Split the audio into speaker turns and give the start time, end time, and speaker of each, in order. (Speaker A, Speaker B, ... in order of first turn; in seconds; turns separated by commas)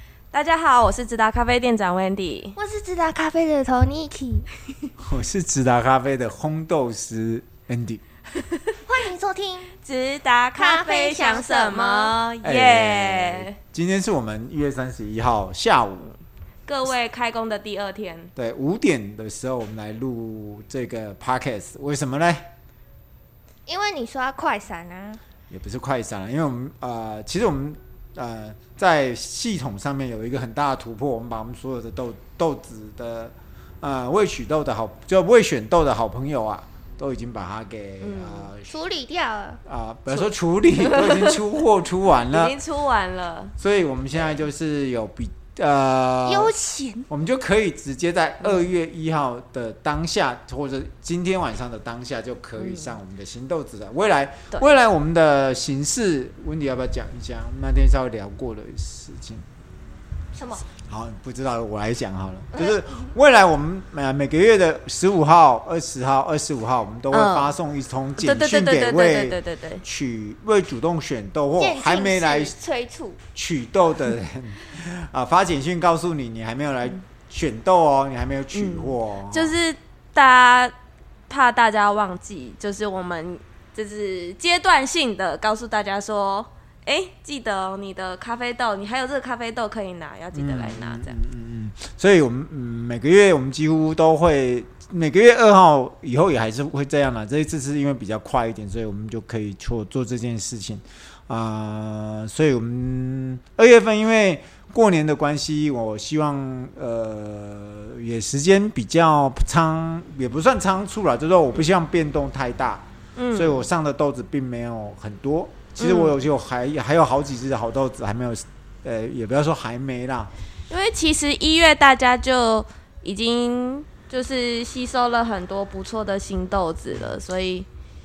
Speaker A: 0.3-2.6, Speaker B: 2.6-4.5, Speaker C: 5.0-8.0, Speaker B: 8.8-9.7, Speaker A: 9.8-13.6, Speaker B: 10.6-12.2, Speaker C: 12.4-16.1, Speaker A: 16.7-18.3, Speaker C: 18.4-22.5, Speaker B: 23.7-25.2, Speaker C: 25.5-38.8, Speaker A: 38.0-38.5, Speaker B: 38.7-39.6, Speaker C: 39.6-42.6, Speaker A: 40.1-41.4, Speaker A: 42.2-43.5, Speaker C: 43.6-46.5, Speaker B: 46.2-47.1, Speaker C: 47.1-59.5, Speaker A: 52.6-52.9, Speaker B: 60.3-60.6, Speaker C: 60.8-72.5, Speaker B: 62.5-62.8, Speaker A: 67.1-67.5, Speaker A: 68.2-69.8, Speaker B: 71.6-73.2, Speaker C: 73.3-79.6, Speaker A: 78.5-80.7, Speaker A: 81.3-91.2, Speaker C: 90.3-120.3, Speaker A: 113.2-113.7, Speaker A: 115.8-116.2, Speaker A: 120.7-127.7, Speaker C: 126.9-127.2